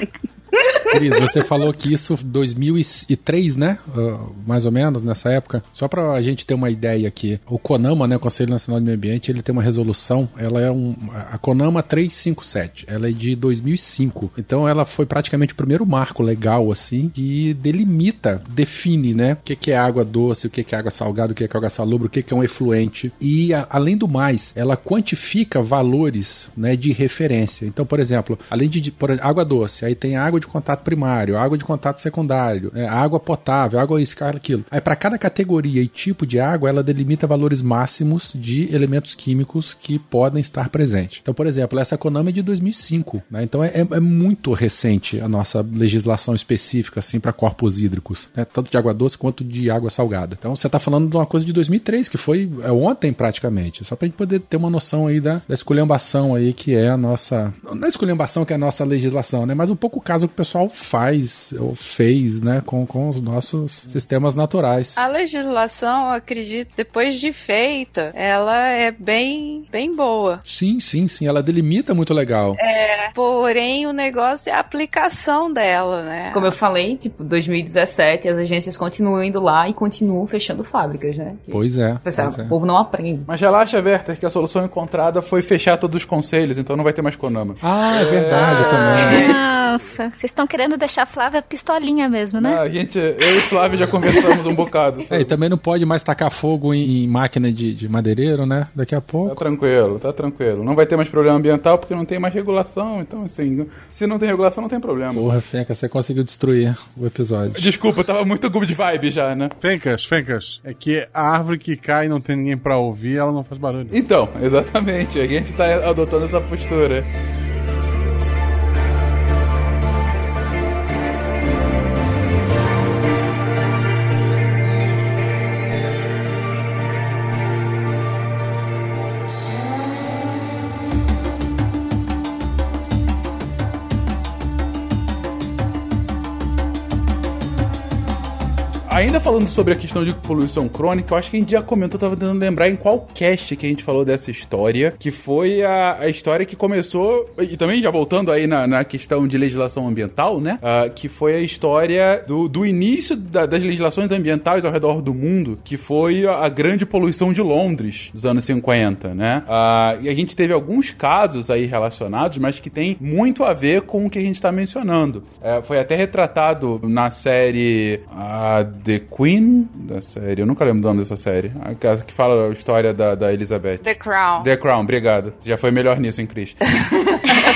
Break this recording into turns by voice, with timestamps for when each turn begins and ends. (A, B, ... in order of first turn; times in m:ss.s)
0:00.9-1:05.0 A
1:05.0-1:10.4 B
1:10.4-1:12.6 A
1:12.6-1:16.5 B
1:16.3-1:23.3 C
1:21.5-1:22.5 A
1:23.3-1:29.3 D
1:27.6-1:29.4 A
1:28.6-1:32.6 E
1:32.4-1:35.3 D
1:35.1-1:39.4 A
1:39.2-1:45.3 D
1:45.1-1:47.7 A
1:47.5-1:49.5 D
1:49.6-1:54.0 F
1:53.9-1:57.1 D
2:18.9-2:53.8 D
2:53.8-2:54.5 B
2:54.4-2:56.7 D